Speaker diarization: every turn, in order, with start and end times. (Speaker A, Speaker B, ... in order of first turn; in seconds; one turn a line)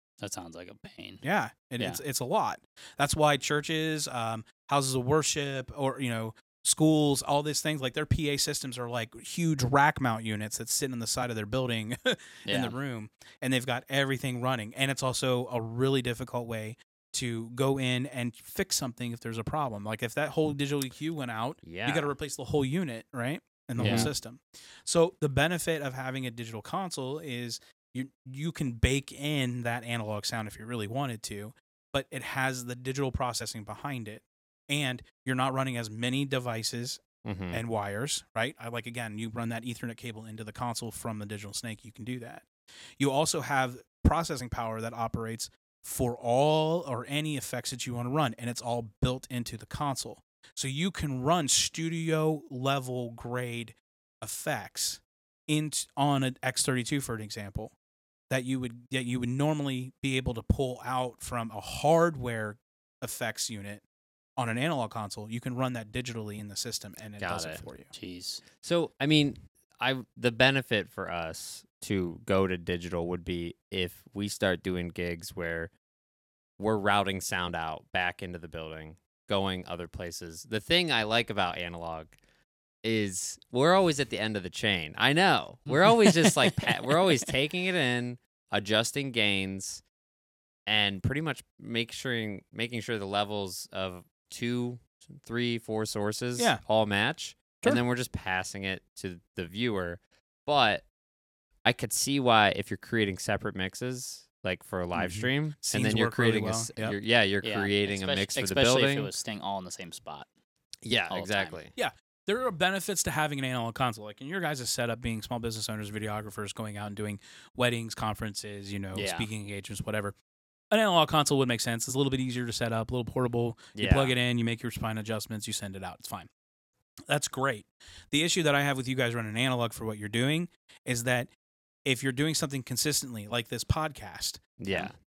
Speaker A: 0.2-1.2
Speaker B: 1.2-42.5
Speaker A: 12.5-12.8
Speaker C: 21.6-22.1
Speaker C: 23.8-24.1
Speaker A: 23.8-24.1
Speaker C: 37.2-37.6
Speaker B: 43.0-57.7
Speaker B: 58.3-63.8
Speaker B: 64.4-67.9
Speaker C: 67.2-67.6
Speaker A: 67.9-68.4
Speaker C: 68.6-75.7
Speaker C: 76.6-82.1
Speaker C: 82.8-89.8
Speaker A: 85.7-87.2
Speaker C: 90.7-100.8
Speaker C: 101.6-109.1
Speaker B: 104.9-107.0
Speaker A: 107.4-110.3
Speaker C: 110.8-111.7
Speaker A: 111.1-111.6
Speaker B: 111.7-120.1
Speaker A: 118.9-119.3
Speaker B: 120.7-126.3
Speaker C: 123.7-124.1
Speaker B: 127.1-131.3
Speaker B: 131.8-134.4
Speaker C: 134.6-134.9